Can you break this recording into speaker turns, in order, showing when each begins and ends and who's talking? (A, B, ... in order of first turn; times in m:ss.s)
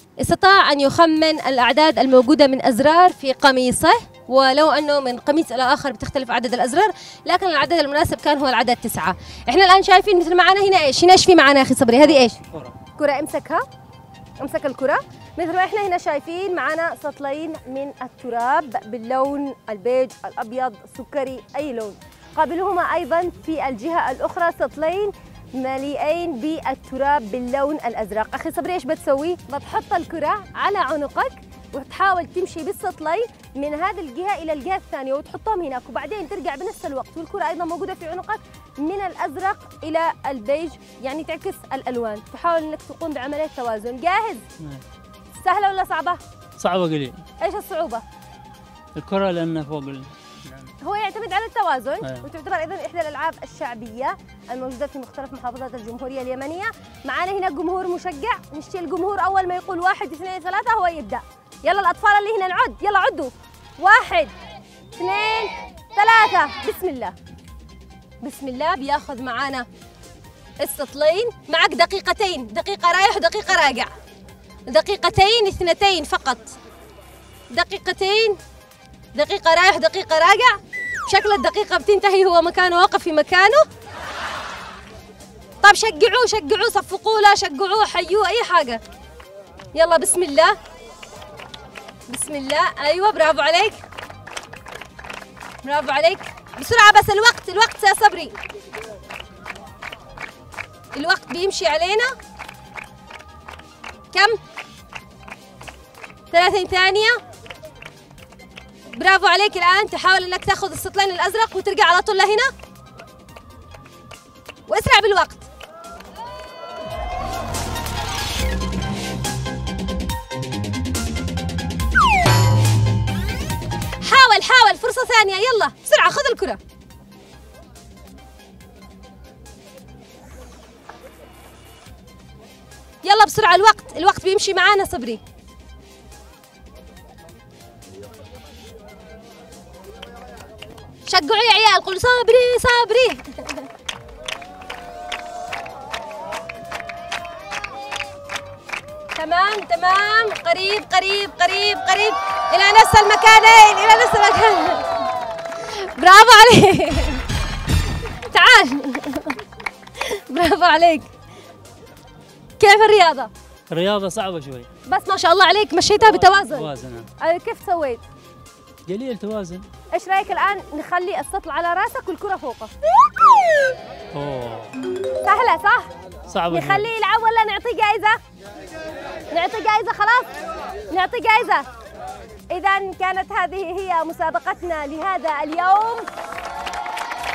0:00.2-0:13.6 A
0:12.4-0:12.8 B
0:14.4-0:44.4 A
0:45.4-0:46.2 A
0:46.6-0:47.2 B
0:47.4-0:48.0 A
0:49.0-0:50.7 B
0:50.8-1:04.3 A
1:05.0-1:07.2 A
1:08.2-1:09.7 A
1:10.6-1:13.9 A
1:14.7-1:16.6 A
1:17.5-1:18.4 A
1:19.1-1:23.6 A
1:25.6-1:28.8 A
1:29.7-1:30.6 A
1:32.1-1:33.8 A
1:35.6-1:38.4 A
1:40.9-1:42.1 A
1:44.1-1:44.4 A
1:46.3-1:47.2 A
1:48.9-1:52.5 A
1:54.7-1:55.5 A
2:04.0-2:06.6 A
2:13.0-2:15.2 A
2:21.1-2:23.7 A
2:29.1-2:35.0 A
2:35.6-2:37.2 A
2:38.1-2:39.4 A
2:40.0-2:41.1 A
2:42.6-2:43.3 A
2:43.7-2:44.7 B
2:44.9-2:48.0 A
2:46.0-2:47.1 B
2:48.9-2:49.7 B
2:49.9-2:52.7 A
2:54.1-2:54.8 B
2:55.2-2:55.9 A
2:56.3-2:56.9 B
2:56.5-2:58.2 A
2:59.3-3:00.3 A
3:00.9-3:01.7 A
3:02.5-3:06.1 A